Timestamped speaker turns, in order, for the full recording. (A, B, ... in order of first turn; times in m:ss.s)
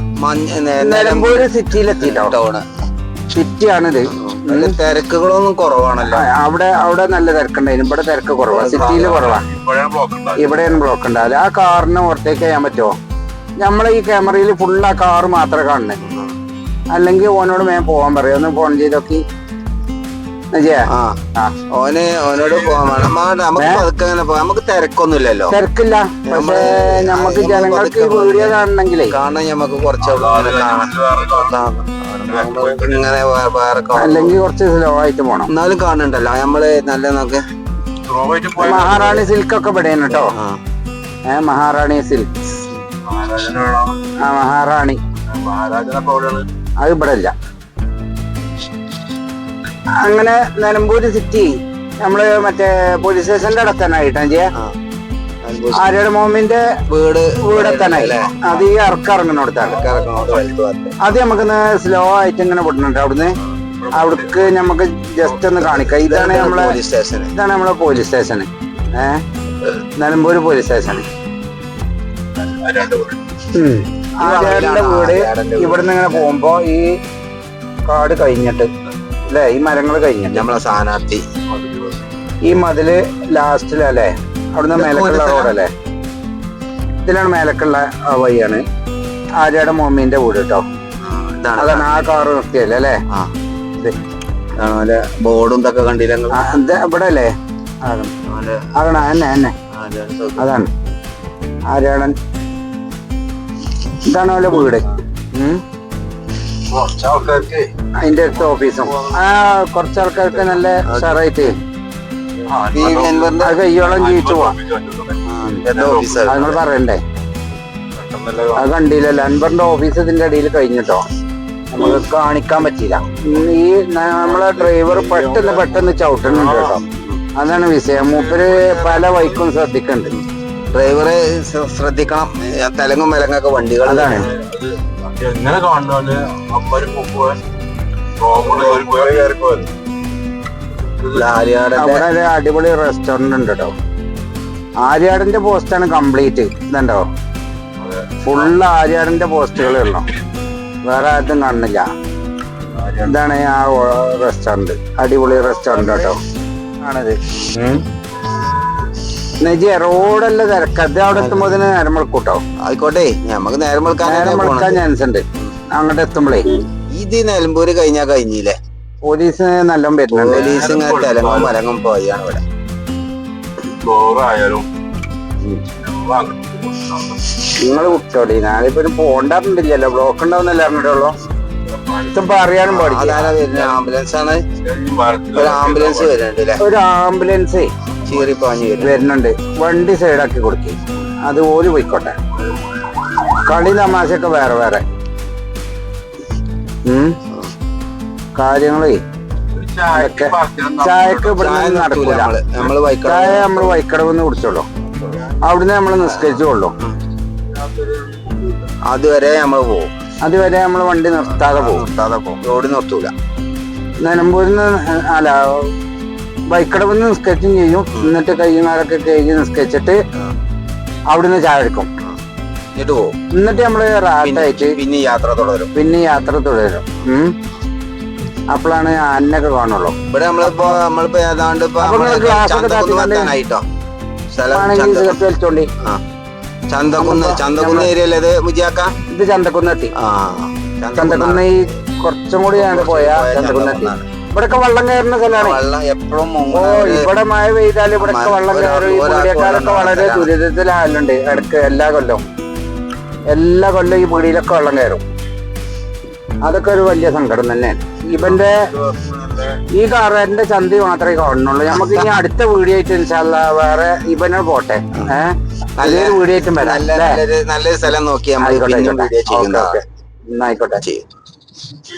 0:00.2-0:02.6 A
0:00.8-0:02.4 B
0:03.3-0:04.8 B
0:04.1-0:06.3 A
0:06.0-0:09.4 B
0:08.5-0:09.3 A
0:08.7-0:10.8 C
0:10.4-0:12.9 B
0:13.6-0:16.0 B
0:16.0-0:16.4 A
0:16.9-0:19.2 B
0:20.5-0:21.6 B
0:20.9-0:25.6 A
0:23.6-0:23.9 B
0:25.5-0:29.2 B
0:26.3-0:28.6 A
0:29.1-0:34.4 A
0:30.0-0:31.6 C
0:32.2-0:33.0 C
0:34.0-0:35.5 B
0:35.5-0:37.5 A
0:38.0-0:39.3 C
0:38.6-0:40.3 B
0:40.3-0:40.6 A
0:41.3-0:42.4 B
0:43.0-0:44.1 C
0:44.2-0:45.0 B
0:45.3-0:46.5 C
0:46.8-0:47.3 B
0:50.0-0:51.5 B
0:52.0-0:54.5 B
0:55.4-0:55.8 A
0:55.8-0:56.7 B
0:56.9-0:58.6 A
0:57.4-0:59.8 B
0:59.7-1:01.1 A
0:59.8-1:00.5 C
1:01.0-1:03.4 B
1:03.6-1:04.6 C
1:03.9-1:06.8 B
1:05.6-1:07.3 A
1:07.3-1:09.2 B
1:10.0-1:11.1 B
1:12.4-1:13.2 C
1:13.5-1:16.9 B
1:14.2-1:16.3 A
1:17.9-1:18.7 B
1:19.3-1:20.5 B
1:20.3-1:21.2 A
1:21.5-1:22.0 C
1:22.5-1:25.7 B
1:24.8-1:25.6 A
1:27.0-1:28.6 B
1:29.4-1:30.6 B
1:31.0-1:32.0 A
1:31.6-1:33.0 B
1:34.6-1:36.4 A
1:36.3-1:37.3 B
1:37.8-1:38.1 B
1:38.3-1:38.7 A
1:38.8-1:39.5 B
1:39.7-1:40.5 A
1:40.4-1:40.7 B
1:41.7-1:42.2 B
1:43.9-1:45.6 B
1:46.7-1:47.7 C
1:48.0-1:51.6 B
1:48.3-1:49.2 C
1:50.8-1:51.2 A
1:52.5-1:56.4 C
1:52.7-1:53.6 A
1:53.4-1:54.6 B
1:55.3-1:56.6 A
1:55.4-1:55.6 B
1:56.3-1:57.0 B
1:58.0-1:58.6 C
1:58.6-2:01.0 B
2:01.7-2:06.8 B
2:04.3-2:06.8 C
2:06.9-2:07.2 A
2:07.4-2:10.1 B
2:07.9-2:09.4 C
2:10.1-2:14.3 A
2:13.8-2:14.3 B
2:14.1-2:17.4 C
2:18.2-2:19.7 C
2:21.0-2:21.3 C
2:21.1-2:22.1 A
2:21.8-2:23.7 B
2:24.8-2:27.1 B
2:27.8-2:28.5 C
2:28.2-2:30.1 B
2:30.8-2:31.9 B
2:32.7-2:33.1 C
2:33.0-2:36.2 B
2:35.6-2:36.0 C
2:36.8-2:37.8 B
2:39.4-2:42.4 B
2:41.1-2:41.6 A
2:42.6-2:44.8 A
2:44.0-2:46.6 B
2:46.9-2:48.6 A
2:49.0-2:50.5 B
2:50.1-2:52.4 A
2:50.2-2:51.6 C
2:53.6-2:54.7 C
2:55.7-2:57.3 C
2:57.5-3:01.1 B
3:01.7-3:02.4 C
3:02.1-3:03.3 B
3:02.7-3:04.4 A
3:03.2-3:03.8 C
3:04.6-3:06.1 C
3:05.3-3:06.6 A
3:06.6-3:07.7 B
3:08.1-3:09.0 A
3:08.8-3:12.2 B
3:13.3-3:14.8 B
3:16.9-3:17.2 B
3:18.4-3:19.0 B
3:19.5-3:21.4 C
3:19.9-3:22.3 B
3:21.3-3:23.8 A
3:23.0-3:24.7 B
3:25.1-3:25.4 C
3:25.4-3:26.8 B
3:26.0-3:27.0 A
3:27.6-3:28.7 C
3:28.8-3:29.9 A
3:30.2-3:31.8 B
3:31.4-3:33.1 A
3:34.0-3:35.7 B
3:36.5-3:40.0 B
3:41.1-3:41.9 B
3:42.8-3:43.2 A
3:43.3-3:44.8 B
3:44.2-3:45.7 A
3:45.8-3:47.4 B
3:48.5-3:50.8 B
3:50.1-3:53.6 A
3:51.8-3:53.3 B
3:54.3-3:55.2 A
3:54.5-3:55.7 B
3:56.7-3:58.9 A
3:57.0-3:57.9 B
3:59.1-3:59.9 B
4:00.0-4:01.6 A
4:01.0-4:05.6 B
4:02.5-4:04.1 A
4:05.3-4:07.1 A
4:06.5-4:12.2 B
4:08.0-4:10.3 A
4:13.3-4:15.0 B
4:16.4-4:18.7 B
4:18.2-4:19.2 A
4:19.7-4:27.2 B
4:21.7-4:22.2 A
4:25.8-4:29.8 A
4:28.4-4:30.8 B